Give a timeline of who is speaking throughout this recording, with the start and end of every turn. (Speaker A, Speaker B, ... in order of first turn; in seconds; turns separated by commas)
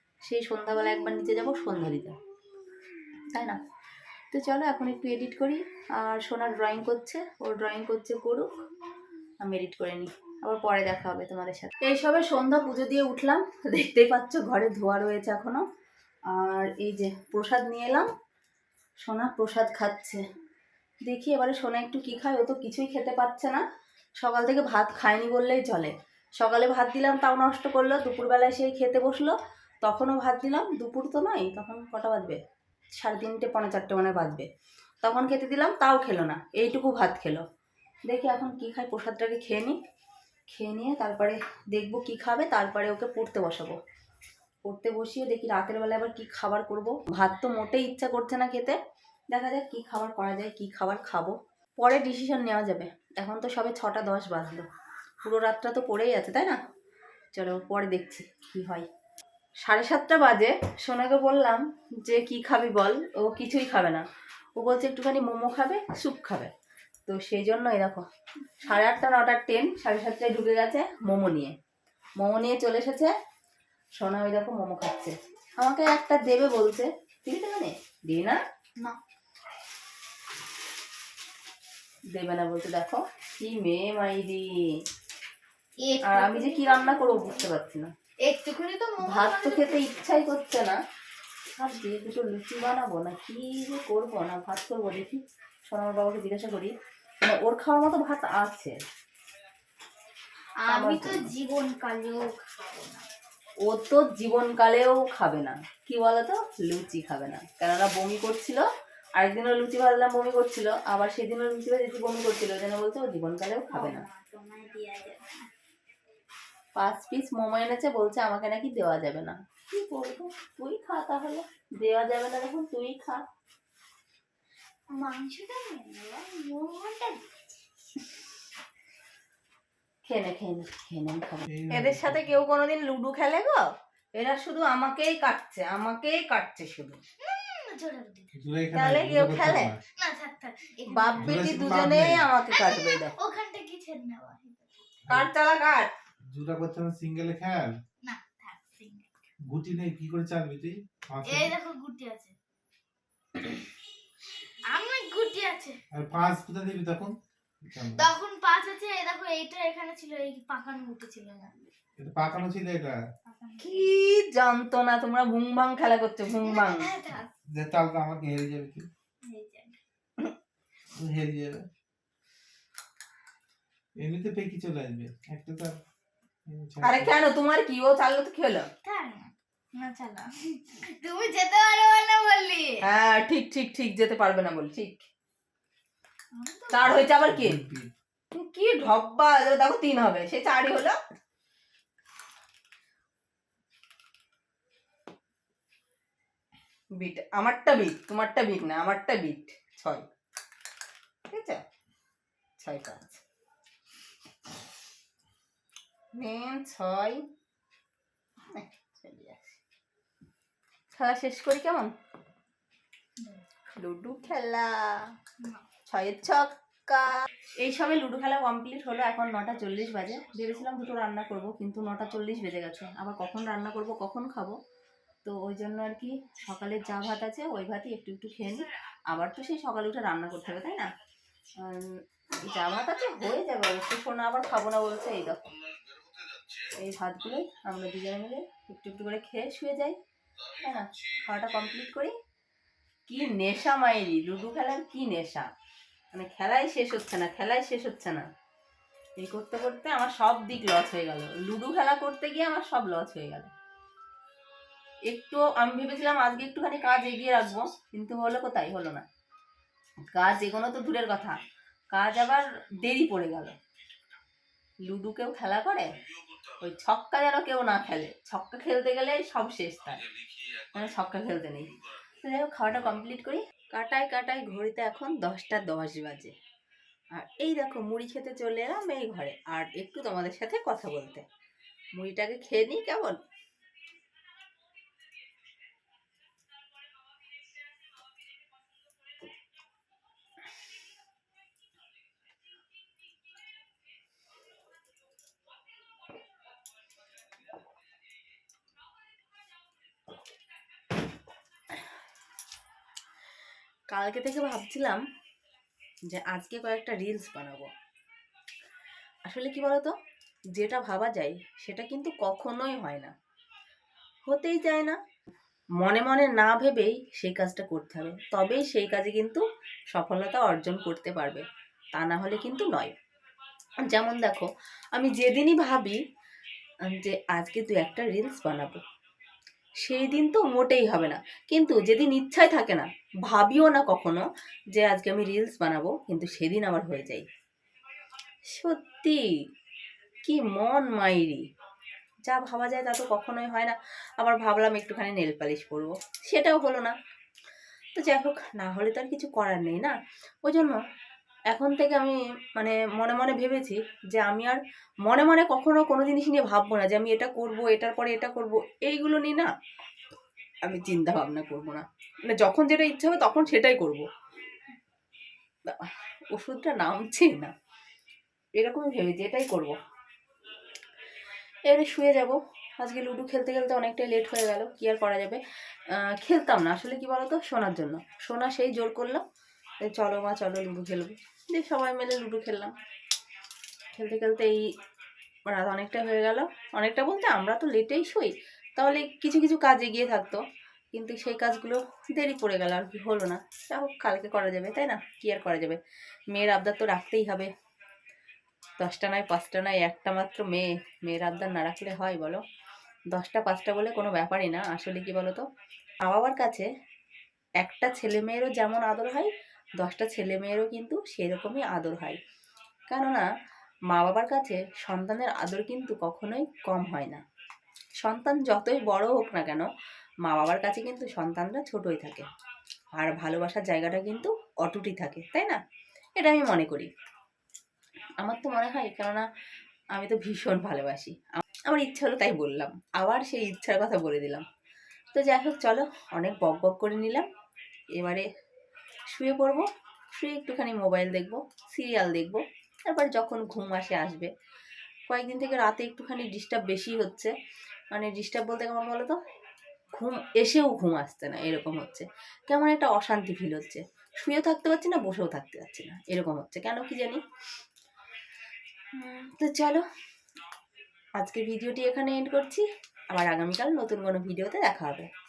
Speaker A: 0.2-2.2, Speaker A: 4.3-8.5, Speaker A: 9.4-15.6, Speaker A: 16.3-18.1, Speaker A: 19.1-20.2, Speaker A: 21.1-23.6, Speaker A: 24.2-32.4, Speaker A: 33.0-34.5, Speaker A: 35.0-37.4, Speaker A: 38.1-39.8, Speaker A: 40.5-43.8, Speaker A: 44.6-48.8, Speaker A: 49.3-54.7, Speaker A: 55.2-56.6, Speaker A: 57.4-58.9, Speaker A: 59.6-64.0, Speaker A: 64.6-66.5, Speaker A: 67.1-68.0, Speaker A: 68.6-71.5, Speaker A: 72.2-73.1, Speaker A: 74.0-78.4, Speaker A: 82.1-84.5, Speaker B: 85.8-87.5, Speaker A: 86.0-87.9, Speaker B: 88.2-90.3, Speaker A: 89.0-90.8, Speaker A: 91.6-98.8, Speaker B: 100.7-103.1, Speaker A: 100.7-101.3, Speaker A: 103.7-108.6, Speaker A: 109.2-114.0, Speaker B: 113.7-115.5, Speaker A: 116.8-123.2, Speaker B: 124.9-127.3, Speaker A: 130.1-133.7, Speaker C: 131.5-132.3, Speaker A: 134.2-137.0, Speaker B: 137.2-138.4, Speaker C: 138.3-139.8, Speaker A: 138.7-139.8, Speaker B: 140.0-141.6, Speaker A: 140.9-143.2, Speaker C: 141.2-142.3, Speaker B: 142.5-145.1, Speaker C: 145.1-145.3, Speaker A: 145.1-145.9, Speaker C: 146.3-147.8, Speaker B: 148.0-149.1, Speaker C: 149.5-151.5, Speaker B: 151.2-152.3, Speaker B: 154.7-155.8, Speaker C: 155.9-158.1, Speaker B: 157.9-161.7, Speaker C: 162.0-163.0, Speaker B: 163.3-164.0, Speaker A: 163.6-166.9, Speaker B: 166.4-167.3, Speaker C: 167.5-168.9, Speaker B: 169.2-169.8, Speaker C: 170.9-171.7, Speaker C: 174.0-175.8, Speaker C: 176.5-177.2, Speaker A: 176.8-178.7, Speaker B: 178.8-182.8, Speaker A: 182.8-185.1, Speaker B: 186.3-187.0, Speaker A: 186.7-187.6, Speaker C: 187.0-187.9, Speaker A: 188.3-191.0, Speaker A: 197.0-200.1, Speaker A: 201.3-201.6, Speaker A: 202.6-203.2, Speaker A: 206.2-207.2, Speaker A: 208.5-209.6, Speaker A: 210.9-211.9, Speaker A: 213.7-215.1, Speaker A: 215.9-224.6, Speaker A: 225.2-230.9, Speaker A: 231.6-235.6, Speaker A: 236.7-240.0, Speaker A: 240.6-242.1, Speaker A: 243.1-245.5, Speaker A: 246.1-248.3, Speaker A: 249.2-253.5, Speaker A: 255.1-259.1, Speaker A: 260.1-261.4, Speaker A: 261.9-263.6, Speaker A: 264.9-266.0, Speaker A: 266.6-270.1, Speaker A: 270.7-276.4, Speaker A: 277.1-281.3, Speaker A: 281.9-283.2, Speaker A: 303.9-305.0, Speaker A: 306.1-307.7, Speaker A: 309.3-309.9, Speaker A: 310.5-313.1, Speaker A: 314.3-315.0, Speaker A: 315.8-322.9, Speaker A: 323.8-326.0, Speaker A: 326.9-328.8, Speaker A: 329.8-337.3, Speaker A: 338.5-339.2, Speaker A: 340.2-341.4, Speaker A: 342.3-346.9, Speaker A: 347.9-350.8, Speaker A: 351.5-359.5, Speaker A: 360.6-364.1, Speaker A: 365.7-367.5, Speaker A: 368.6-369.8, Speaker A: 371.7-379.2, Speaker A: 379.8-382.7, Speaker A: 383.9-384.6, Speaker A: 385.5-390.4, Speaker A: 390.9-395.8, Speaker A: 396.3-397.5, Speaker A: 398.8-402.4, Speaker A: 403.1-405.4, Speaker A: 406.0-406.7, Speaker A: 407.6-412.2, Speaker A: 412.9-413.3, Speaker A: 413.9-417.2, Speaker A: 418.0-419.7, Speaker A: 420.2-422.2, Speaker A: 422.9-425.6, Speaker A: 426.2-426.9, Speaker A: 428.2-429.2, Speaker A: 429.9-434.4, Speaker A: 435.1-437.3, Speaker A: 437.9-438.3, Speaker A: 439.1-444.3, Speaker A: 445.1-447.3, Speaker A: 447.9-449.2, Speaker A: 449.9-457.2, Speaker A: 458.9-459.8, Speaker A: 461.2-465.1